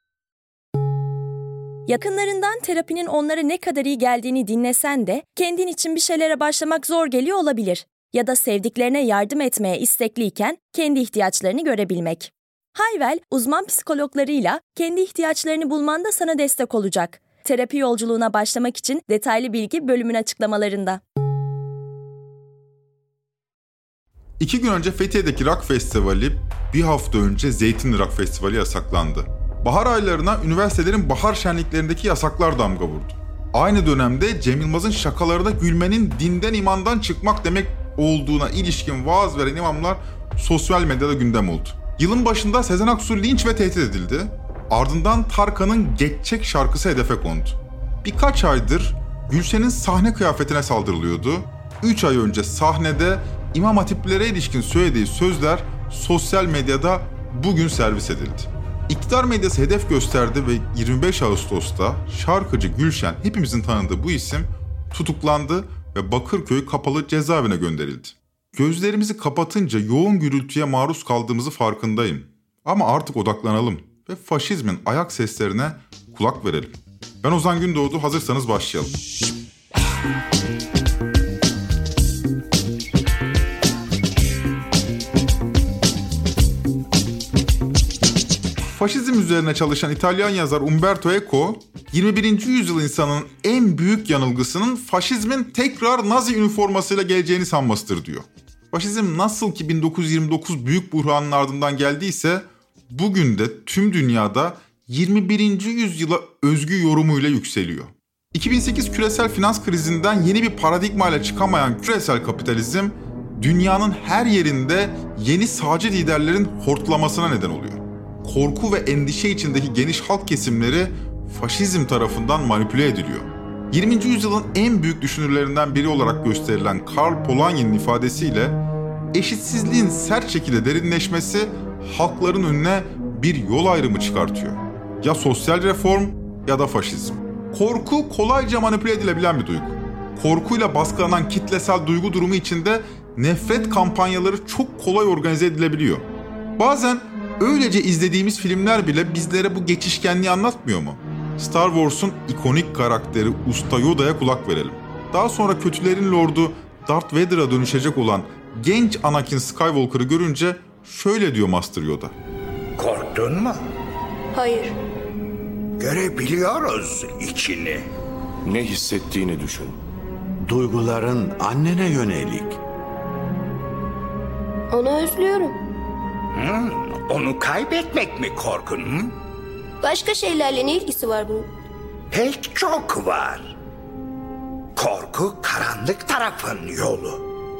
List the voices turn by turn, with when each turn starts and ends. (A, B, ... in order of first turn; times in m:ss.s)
0:01.9-0:21.0 A
0:24.4-1:19.0 B
1:28.7-2:08.6 B
2:09.1-2:42.1 B
2:42.8-2:43.6 C
2:44.3-2:44.7 D
2:45.8-2:47.8 C
2:48.5-2:49.3 E
2:49.0-2:49.7 C
2:50.5-2:50.7 E
2:50.7-2:52.3 C
2:51.4-2:52.5 E
2:54.7-2:55.5 D
2:56.3-2:59.1 C
2:59.8-3:01.5 D
3:02.1-3:03.5 C
3:04.8-3:07.2 C